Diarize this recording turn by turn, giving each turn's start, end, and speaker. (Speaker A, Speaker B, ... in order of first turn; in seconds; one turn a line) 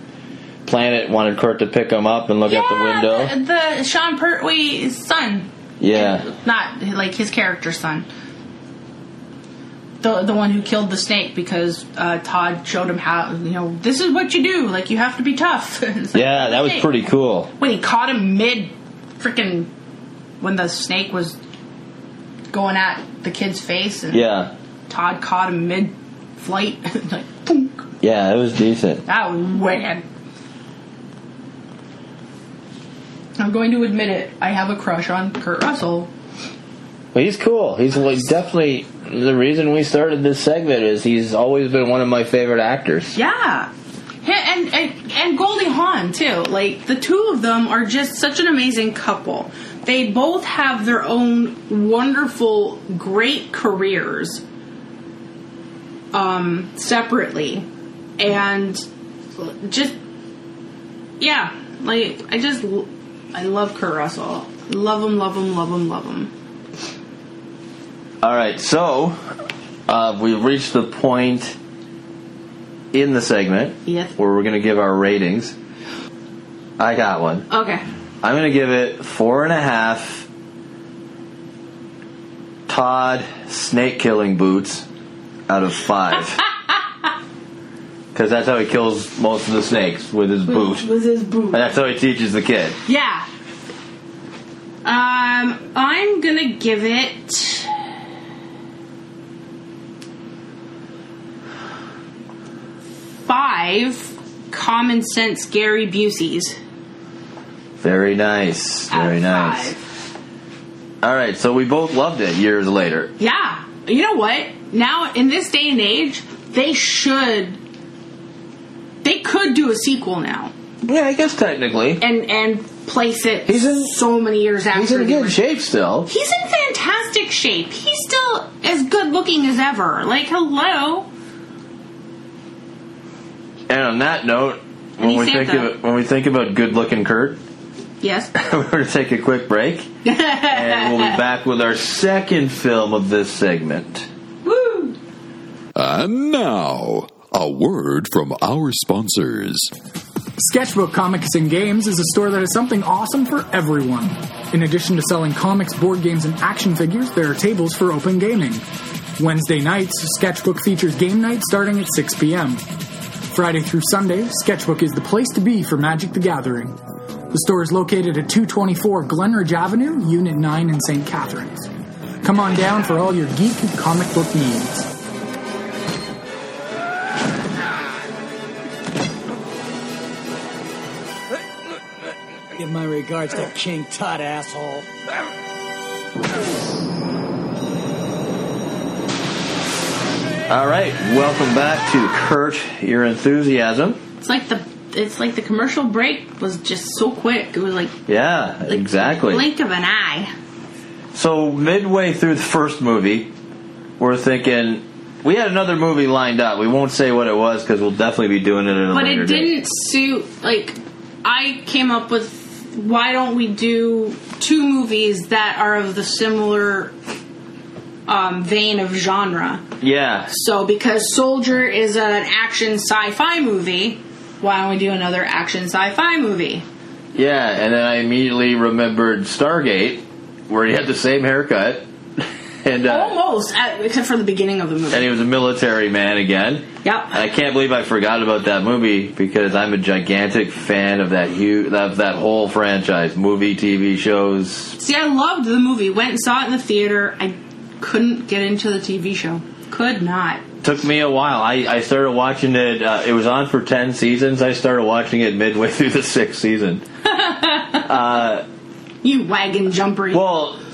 Speaker A: 0.6-3.3
Speaker B: 2.5-8.1
Speaker A: 5.8-6.3
Speaker B: 10.0-16.9
Speaker A: 16.1-17.5
Speaker B: 17.6-19.7
Speaker B: 20.4-21.4
Speaker B: 22.5-24.2
Speaker A: 24.1-24.5
Speaker B: 24.9-27.9
Speaker A: 28.0-29.0
Speaker B: 29.1-30.0
Speaker B: 33.4-36.1
Speaker A: 37.1-43.2
Speaker B: 43.1-43.7
Speaker B: 44.2-54.4
Speaker B: 56.1-57.6
Speaker B: 58.2-58.8
Speaker B: 59.4-60.0
Speaker B: 61.2-66.3
Speaker A: 68.2-69.3
Speaker A: 69.9-71.6
Speaker A: 72.9-75.5
Speaker B: 73.8-74.1
Speaker A: 76.8-77.5
Speaker B: 77.5-77.8
Speaker A: 78.2-80.3
Speaker A: 82.7-84.8
Speaker A: 85.5-86.4
Speaker A: 88.1-90.9
Speaker B: 90.5-91.7
Speaker A: 91.5-92.8
Speaker B: 92.9-93.2
Speaker B: 94.8-97.8
Speaker B: 103.2-106.6
Speaker A: 107.8-109.7
Speaker B: 108.9-109.9
Speaker A: 111.0-113.1
Speaker B: 113.2-117.6
Speaker B: 119.0-120.5
Speaker A: 120.8-122.0
Speaker B: 122.0-125.4
Speaker A: 123.5-123.9
Speaker A: 124.7-126.1
Speaker B: 126.1-131.1
Speaker A: 133.7-137.4
Speaker B: 135.0-135.7
Speaker B: 138.0-138.3
Speaker A: 138.3-139.9
Speaker B: 140.0-141.2
Speaker A: 140.5-144.1
Speaker B: 144.4-145.0
Speaker C: 145.7-149.7
Speaker D: 150.4-158.6
Speaker D: 159.2-162.6
Speaker D: 163.3-166.8
Speaker D: 167.3-171.7
Speaker D: 172.2-174.9
Speaker E: 182.5-184.9
Speaker A: 190.5-194.0
Speaker B: 194.2-198.0
Speaker A: 198.1-199.4
Speaker B: 198.7-200.3
Speaker A: 201.1-203.3
Speaker A: 204.0-209.5
Speaker B: 208.9-216.9
Speaker B: 218.1-219.6
Speaker A: 219.8-220.3
Speaker B: 220.3-226.6
Speaker A: 227.1-233.1
Speaker B: 232.8-235.1
Speaker A: 234.9-244.8
Speaker B: 236.8-237.2
Speaker B: 244.8-250.4
Speaker A: 250.6-256.8
Speaker B: 257.1-257.9
Speaker A: 257.8-258.4
Speaker B: 259.0-260.3
Speaker A: 260.1-260.6